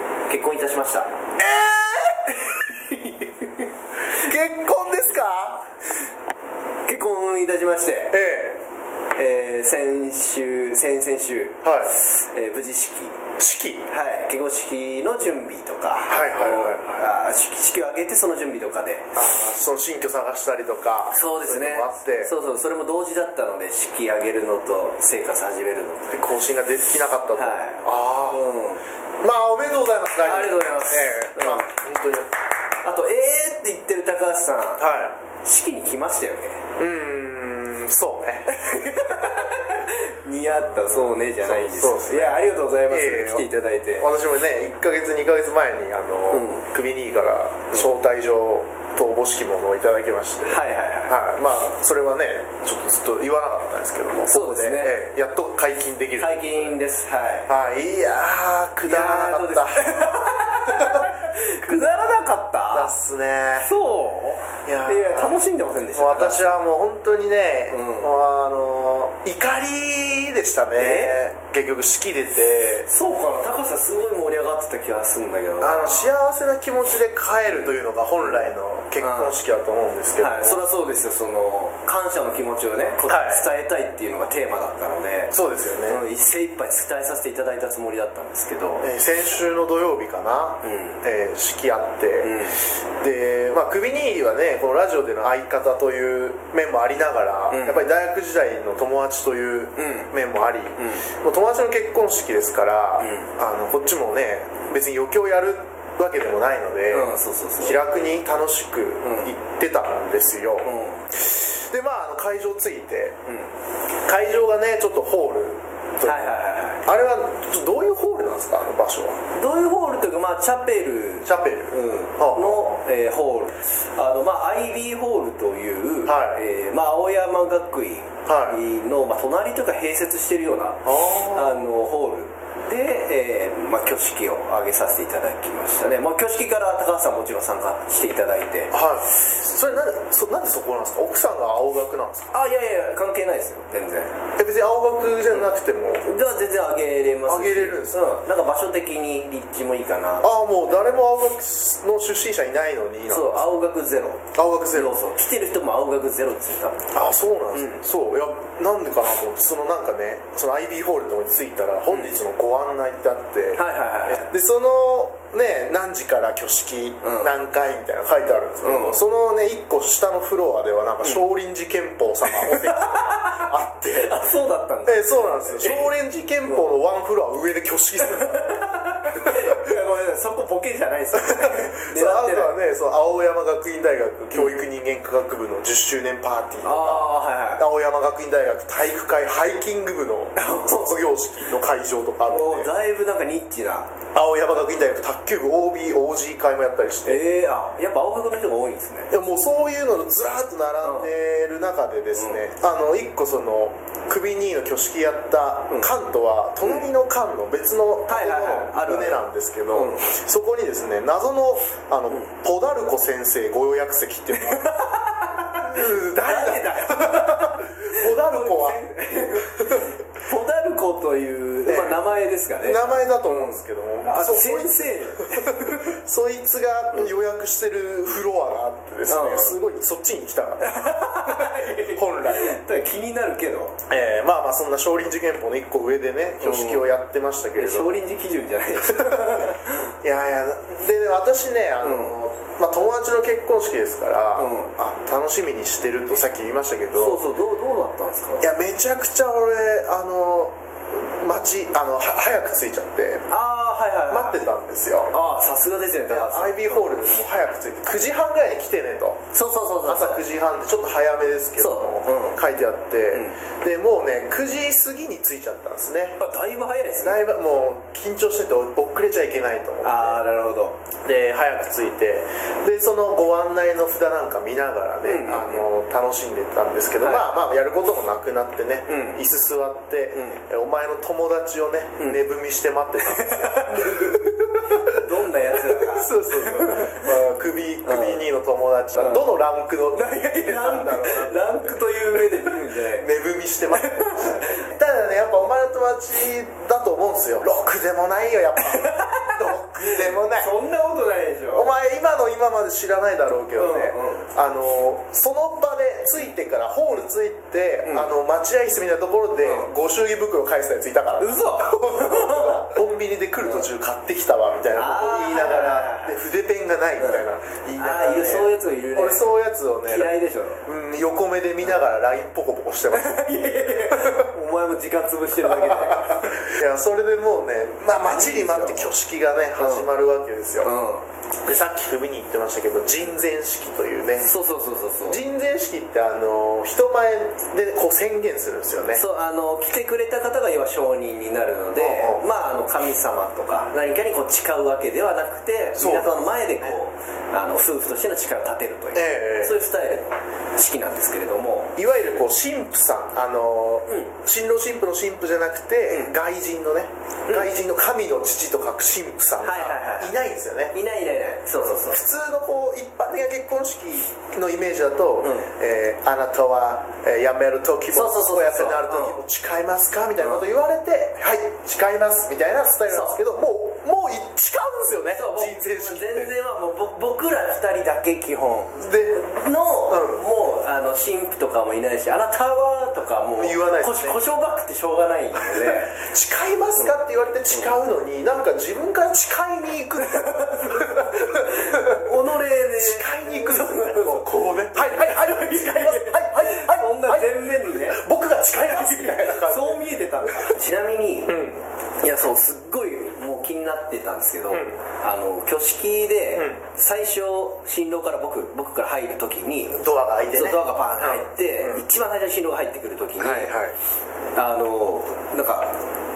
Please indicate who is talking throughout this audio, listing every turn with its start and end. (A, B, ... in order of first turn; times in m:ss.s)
0:00.3-0:01.2 A
0:01.4-0:02.4 B
0:02.9-0:03.5 A
0:04.1-0:05.7 B
0:06.9-0:08.2 A
0:08.1-0:08.6 B
0:09.2-0:13.2 A
0:11.6-0:11.9 B
0:13.4-0:13.9 B
0:13.9-0:19.2 A
0:16.1-0:17.1 B
0:19.2-0:22.3 B
0:21.1-0:26.2 A
0:26.1-0:28.5 B
0:27.4-0:28.8 A
0:29.2-0:32.3 B
0:30.2-0:31.7 A
0:32.8-0:34.9 A
0:34.8-0:35.2 B
0:35.4-0:36.6 A
0:36.8-0:38.6 B
0:38.5-0:44.1 A
0:40.5-0:56.7 B
0:46.3-0:46.6 A
0:50.5-0:51.2 A
0:54.3-0:55.0 A
0:56.2-0:57.5 A
0:57.5-1:00.2 B
0:58.8-1:02.9 A
1:00.7-1:01.1 B
1:02.7-1:03.7 B
1:03.6-1:06.6 A
1:04.6-1:12.9 B
1:07.7-1:08.1 A
1:10.8-1:11.2 A
1:12.9-1:16.2 A
1:15.6-1:20.7 B
1:19.0-1:19.4 A
1:20.2-1:25.3 A
1:23.1-1:23.4 B
1:25.3-1:26.0 B
1:25.9-1:28.9 A
1:28.8-1:53.2 B
1:30.6-1:31.0 A
1:32.2-1:32.6 A
1:37.5-1:37.9 A
1:39.8-1:40.1 A
1:40.8-1:41.1 A
1:43.0-1:43.3 A
1:46.9-1:47.8 A
1:49.0-1:49.3 A
1:50.6-1:51.1 A
1:53.3-1:53.5 A
1:54.1-1:56.3 B
1:56.0-1:56.8 A
1:56.8-1:59.2 B
1:59.3-2:19.1 A
2:01.2-2:02.7 B
2:06.0-2:06.4 B
2:08.3-2:08.6 B
2:10.8-2:11.7 B
2:18.7-2:22.3 B
2:22.3-2:24.2 A
2:24.4-2:26.1 B
2:26.0-2:30.3 A
2:27.3-2:28.1 B
2:30.2-2:33.5 B
2:33.1-2:36.9 A
2:34.3-2:35.0 B
2:36.9-2:54.2 B
2:37.5-2:37.8 A
2:41.9-2:42.2 A
2:43.6-2:44.3 A
2:47.0-2:47.3 A
2:48.6-2:49.0 A
2:52.3-2:55.9 A
2:54.9-2:58.6 B
2:58.1-3:02.6 A
2:59.1-2:59.6 B
3:01.2-3:12.7 B
3:06.6-3:07.6 A
3:10.4-3:10.9 A
3:12.3-3:13.9 A
3:14.1-3:17.2 B
3:17.1-3:19.1 A
3:19.1-3:34.7 B
3:20.8-3:21.1 A
3:22.2-3:22.4 A
3:26.6-3:26.9 A
3:28.1-3:29.2 A
3:29.7-3:30.1 A
3:34.4-3:46.0 A
3:35.5-3:38.8 B
3:39.5-3:39.9 B
3:41.6-3:52.6 B
3:49.1-3:49.6 A
3:50.6-3:53.8 A
3:53.9-3:58.0 B
3:56.4-3:56.9 A
3:57.6-3:59.9 A
3:58.9-4:07.2 B
4:01.8-4:02.1 A
4:04.4-4:04.7 A
4:06.9-4:08.5 A
4:08.4-4:13.3 B
4:13.3-4:14.4 A
4:14.1-4:15.2 B
4:15.1-4:17.2 A
4:16.1-4:19.2 B
4:19.3-4:20.2 A
4:19.8-4:26.2 B
4:21.6-4:22.4 A
4:23.1-4:23.4 A
4:26.2-4:27.3 A
4:27.0-4:30.2 B
4:29.8-4:30.8 A
4:31.0-4:45.0 B
4:35.0-4:35.7 A
4:37.0-4:37.3 A
4:38.9-4:39.2 A
4:40.2-4:40.4 A
4:43.1-4:47.1 A
4:45.6-5:00.5 B
4:47.9-4:48.2 A
4:49.9-4:53.1 A
4:53.7-4:54.7 A
4:58.6-5:01.7 A
5:01.5-5:20.1 B
5:03.6-5:04.3 A
5:07.8-5:08.1 A
5:09.4-5:09.7 A
5:11.2-5:12.6 A
5:14.8-5:16.2 A
5:17.0-5:17.2 A
5:17.8-5:19.3 A
5:19.9-5:20.6 A
5:20.6-5:24.3 B
5:22.9-5:26.5 A
5:25.4-5:30.7 B
5:28.1-5:28.9 A
5:29.6-5:29.9 A
5:30.6-5:31.0 A
5:31.4-5:34.3 B
5:34.2-5:35.2 A
5:35.1-5:39.0 B
5:38.9-5:51.8 A
5:41.8-5:42.3 B
5:45.8-5:46.8 B
5:48.9-5:49.6 B
5:51.8-6:00.8 B
5:59.4-6:00.2 A
6:00.7-6:02.0 A
6:01.9-6:16.3 B
6:05.2-6:05.5 A
6:07.9-6:09.2 A
6:12.9-6:13.2 A
6:15.1-6:26.0 A
6:18.8-6:19.3 B
6:19.8-6:20.2 B
6:23.4-6:24.2 B
6:25.4-6:32.1 B
6:30.0-6:38.0 A
6:32.7-6:39.9 B
6:38.6-6:41.4 A
6:41.3-6:41.6 B
6:42.0-6:49.8 A
6:44.5-6:44.8 B
6:46.4-6:46.6 B
6:49.8-6:51.8 B
6:50.3-6:53.6 A
6:53.2-6:53.8 B
6:54.4-6:55.8 A